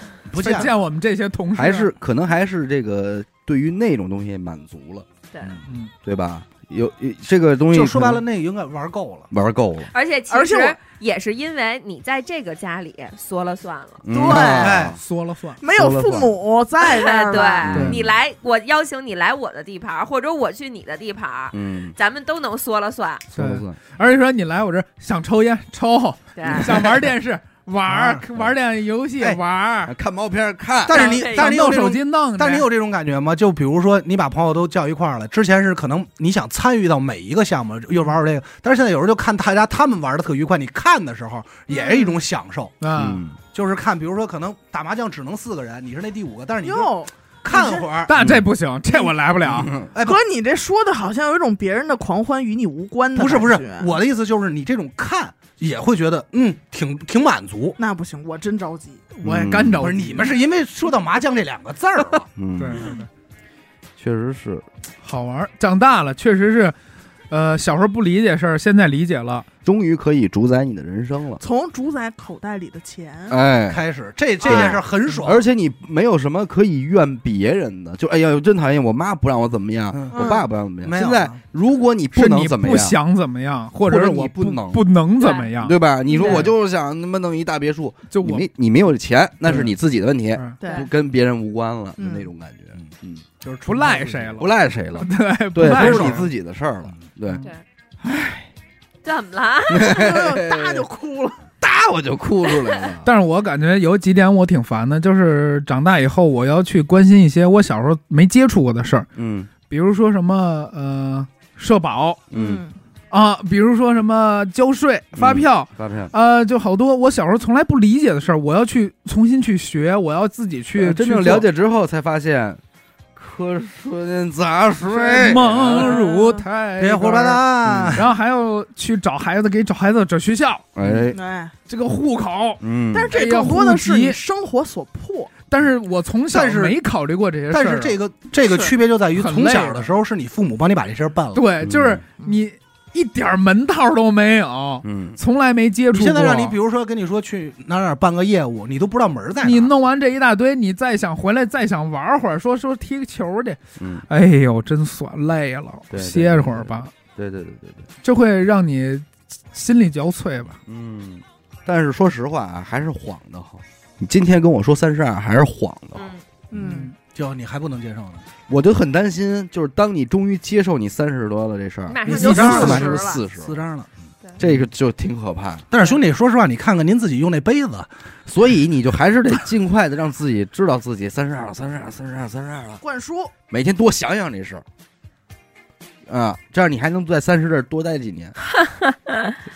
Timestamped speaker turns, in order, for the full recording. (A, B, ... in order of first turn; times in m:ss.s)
0:00.3-0:00.7 A
0:00.4-0:01.9 B
0:01.6-0:05.1 C
0:05.3-0:05.6 D
0:05.7-0:05.9 B
0:06.0-0:08.2 C
0:07.7-0:09.3 A
0:09.3-0:09.9 C
0:09.9-0:14.0 D
0:10.3-0:10.8 E
0:14.0-0:15.0 C
0:14.1-0:14.8 E
0:14.6-0:15.0 A
0:14.9-0:15.6 B
0:15.6-0:17.7 E
0:15.7-0:16.4 C
0:16.8-0:23.3 D
0:17.7-0:18.1 C
0:17.7-0:18.0 B
0:21.5-0:22.0 C
0:23.3-0:23.8 C
0:23.3-0:29.9 B
0:26.4-0:26.9 D
0:27.9-0:28.2 A
0:29.9-0:31.2 C
0:30.9-0:42.8 A
0:30.9-0:31.5 D
0:31.3-0:32.7 B
0:41.7-0:42.2 E
0:42.8-0:43.2 B
0:43.0-0:43.4 C
0:43.4-0:46.9 A
0:46.6-0:47.9 E
0:47.4-0:48.1 A
0:48.1-0:49.8 B
0:48.1-0:48.5 C
0:49.4-0:49.9 C
0:49.9-0:50.2 A
0:50.0-0:53.9 E
0:53.2-0:57.8 A
0:57.8-0:59.0 E
0:59.1-1:00.3 B
0:59.2-1:00.0 C
0:59.8-1:02.3 A
1:02.4-1:02.9 C
1:02.6-1:03.1 B
1:04.0-1:04.7 C
1:05.0-1:06.8 B
1:07.3-1:09.5 B
1:09.6-1:11.4 C
1:11.4-1:13.4 E
1:13.3-1:13.8 C
1:13.7-1:15.4 A
1:14.4-1:23.0 C
1:14.5-1:14.7 E
1:19.9-1:21.4 A
1:20.1-1:20.4 E
1:22.2-1:26.5 B
1:23.8-1:24.9 C
1:25.2-1:25.5 D
1:25.6-1:33.2 C
1:26.1-1:26.5 E
1:28.1-1:28.5 B
1:30.6-1:30.9 E
1:32.0-1:32.3 E
1:32.8-1:34.4 A
1:33.7-1:36.3 B
1:34.4-1:37.5 C
1:35.6-1:36.3 A
1:38.0-1:38.5 C
1:39.0-1:40.0 D
1:39.7-1:40.9 C
1:39.8-1:41.4 E
1:41.6-1:43.1 C
1:43.0-1:49.1 B
1:49.2-1:49.5 C
1:49.6-1:52.2 B
1:52.3-1:52.6 C
1:52.3-1:52.7 E
1:53.1-2:01.5 B
1:55.2-1:56.1 C
2:00.8-2:02.6 C
2:03.2-2:05.9 C
2:04.9-2:07.4 B
2:05.8-2:06.4 E
2:06.8-2:08.1 A
2:07.6-2:08.0 C
2:08.0-2:10.7 B
2:10.8-2:11.2 C
2:11.1-2:11.5 E
2:11.7-2:14.2 B
2:12.6-2:13.2 C
2:12.9-2:15.3 E
2:15.5-2:18.0 B
2:16.3-2:16.8 A
2:17.5-2:21.5 A
2:18.5-2:18.7 E
2:19.2-2:19.9 B
2:21.4-2:26.6 B
2:21.6-2:22.0 C
2:24.8-2:25.2 C
2:25.9-2:29.7 A
2:29.4-2:36.9 B
2:33.8-2:34.1 C
2:35.9-2:37.9 C
2:38.0-2:40.6 B
2:40.6-2:46.1 C
2:46.0-2:46.2 D
2:46.5-2:46.9 E
2:46.6-2:48.3 A
2:48.5-2:53.6 C
2:51.9-2:52.8 D
2:52.1-2:53.2 E
2:52.1-2:54.6 A
2:54.4-2:55.7 C
2:55.7-2:57.9 A
2:58.3-3:02.8 C
3:02.8-3:03.3 E
3:03.5-3:04.6 C
3:06.1-3:08.4 C
3:08.6-3:09.4 D